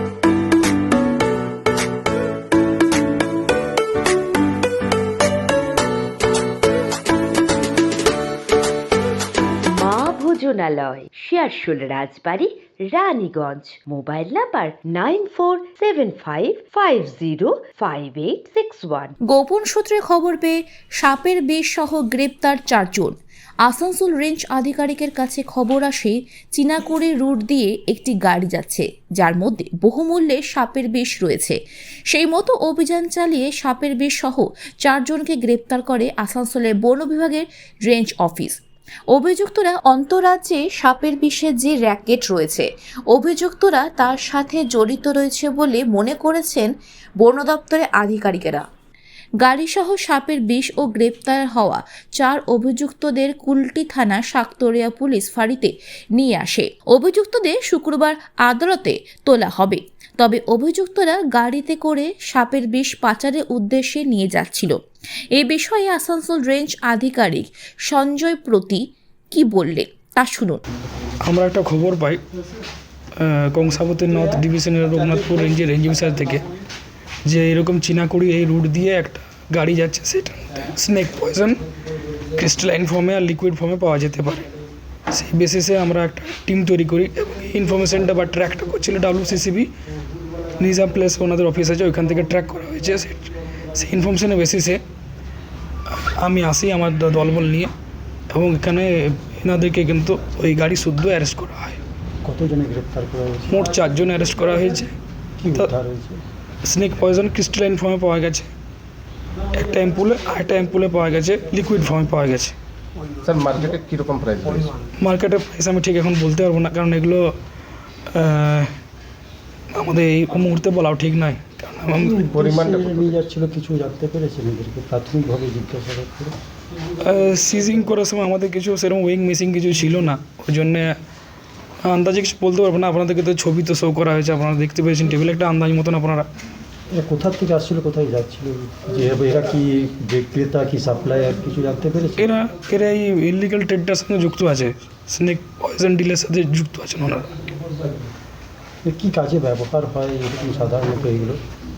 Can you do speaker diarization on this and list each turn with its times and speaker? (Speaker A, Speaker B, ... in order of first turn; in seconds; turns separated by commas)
Speaker A: 9.6-19.1, Speaker B: 19.3-31.6, Speaker B: 32.1-38.6, Speaker B: 39.1-48.6, Speaker B: 49.4-64.8, Speaker B: 65.3-70.6, Speaker C: 71.2-72.2, Speaker C: 73.2-76.4, Speaker C: 77.2-81.6, Speaker C: 82.3-84.5, Speaker C: 85.1-89.7, Speaker C: 90.6-94.8, Speaker C: 95.9-97.7, Speaker C: 98.3-101.8, Speaker D: 102.2-103.6, Speaker C: 103.5-105.0, Speaker D: 105.4-106.2, Speaker C: 106.6-108.5, Speaker C: 109.5-112.5, Speaker E: 113.2-114.8, Speaker C: 115.0-117.3, Speaker C: 118.1-118.7, Speaker C: 119.7-122.2, Speaker D: 121.9-126.3, Speaker E: 122.3-123.3, Speaker C: 127.0-130.9, Speaker C: 131.8-136.3, Speaker D: 136.9-142.3, Speaker C: 142.2-147.3, Speaker D: 148.8-151.4